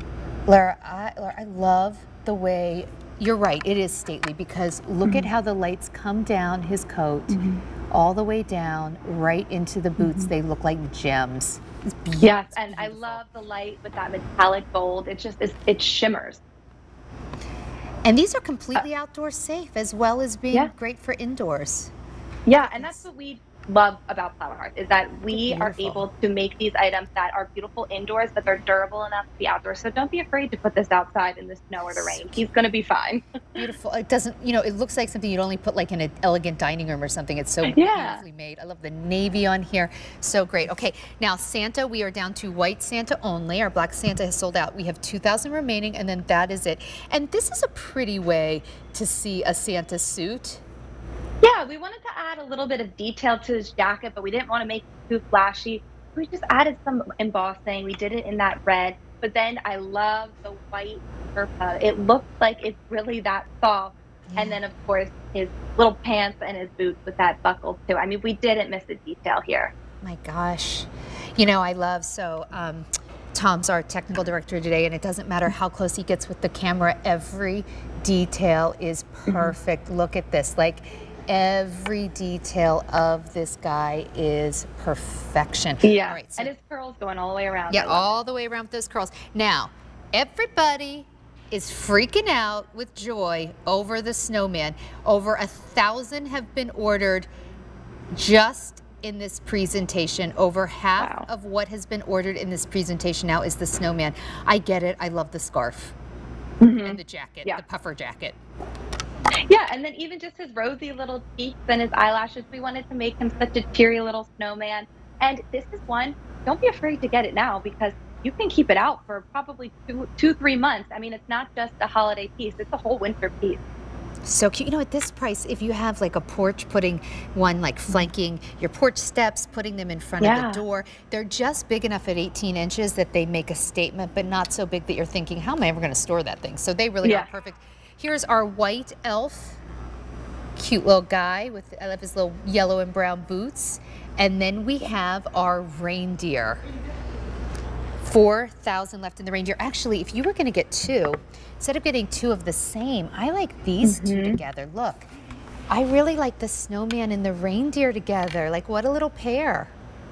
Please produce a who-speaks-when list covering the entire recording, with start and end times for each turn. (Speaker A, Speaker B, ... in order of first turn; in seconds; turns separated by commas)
Speaker A: 0.5-13.2, Speaker B: 7.3-7.6, Speaker B: 10.0-10.3, Speaker B: 12.2-16.4, Speaker A: 18.1-21.9, Speaker B: 22.5-33.6, Speaker A: 22.8-23.0, Speaker A: 25.3-26.0, Speaker A: 32.0-32.4, Speaker A: 33.6-50.6, Speaker B: 37.6-38.2, Speaker B: 51.4-69.7, Speaker A: 64.3-64.6, Speaker A: 70.0-86.5, Speaker B: 79.3-79.5, Speaker B: 85.8-88.2, Speaker A: 87.7-97.3, Speaker A: 98.1-106.0, Speaker B: 101.0-101.3, Speaker B: 106.6-107.6, Speaker A: 106.8-108.4, Speaker B: 109.5-123.6, Speaker A: 124.3-139.6, Speaker B: 130.2-130.6, Speaker B: 137.0-137.3, Speaker A: 140.6-146.6, Speaker A: 148.0-155.1, Speaker B: 153.8-154.4, Speaker A: 155.7-159.7